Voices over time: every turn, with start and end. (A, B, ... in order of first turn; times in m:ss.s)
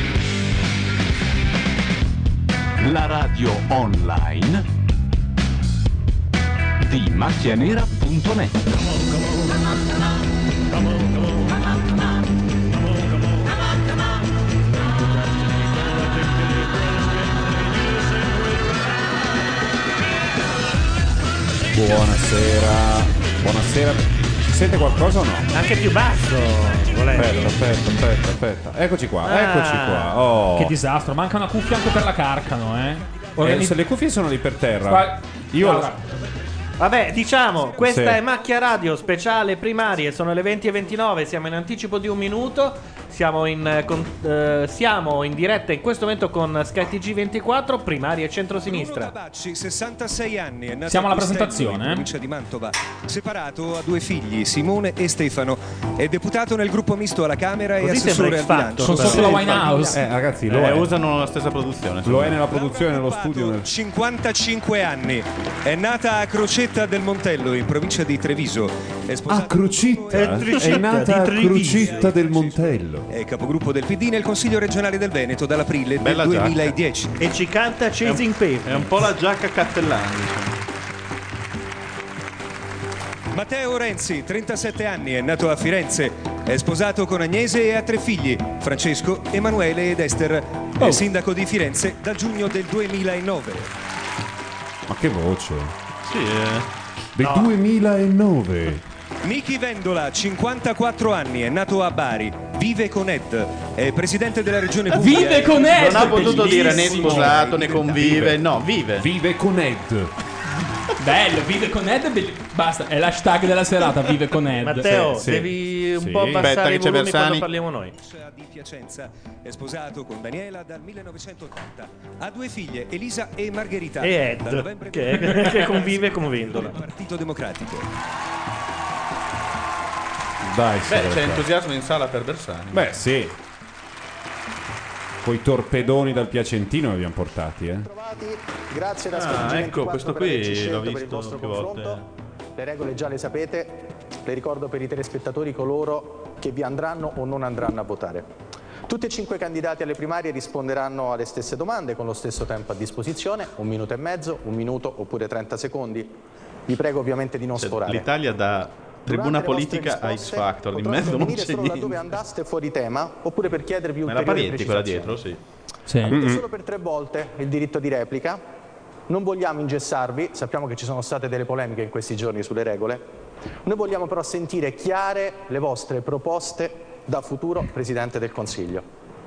0:02.8-0:04.6 A
0:06.8-0:08.6 A
0:21.7-0:25.5 B
0:25.5-0:27.6 C
0:27.2-0:30.8 B
0:29.2-0:30.2 C
0:30.5-0:33.8 D
0:33.4-0:35.9 B
0:34.9-0:36.0 D
0:36.8-0:49.2 C
0:37.8-0:38.2 B
0:48.6-1:00.0 E
0:50.9-0:52.1 D
0:57.8-0:59.9 C
0:58.8-1:00.0 D
0:59.2-1:00.9 B
1:00.5-1:02.4 F
1:02.0-1:03.7 B
1:02.4-1:11.0 E
1:09.3-1:13.1 B
1:10.1-1:12.2 C
1:11.7-1:17.2 E
1:16.0-1:16.8 F
1:17.2-1:19.2 C
1:18.0-1:20.6 F
1:23.3-1:33.7 E
1:34.9-1:35.7 B
1:36.0-1:36.7 F
1:37.2-1:38.8 B
1:37.2-1:37.6 C
1:39.2-1:46.0 E
1:44.9-1:47.6 D
1:45.6-1:49.1 F
1:47.0-1:48.4 B
1:49.0-1:50.1 B
1:51.0-1:55.2 D
1:54.6-1:57.9 C
1:54.9-1:56.5 B
1:56.4-1:57.5 F
1:58.0-2:07.9 E
2:04.0-2:06.8 C
2:10.4-2:11.5 B
2:10.9-2:13.1 F
2:12.7-2:13.4 B
2:15.2-2:17.9 B
2:17.8-2:22.0 G
2:19.1-2:22.0 F
2:22.6-2:28.3 G
2:28.9-2:38.1 G
2:37.6-2:42.0 F
2:39.1-2:45.3 G
2:44.0-2:45.4 F
2:45.9-2:46.2 D
2:46.1-2:48.4 G
2:46.1-2:46.4 B
2:49.1-2:53.1 G
2:53.6-2:58.9 G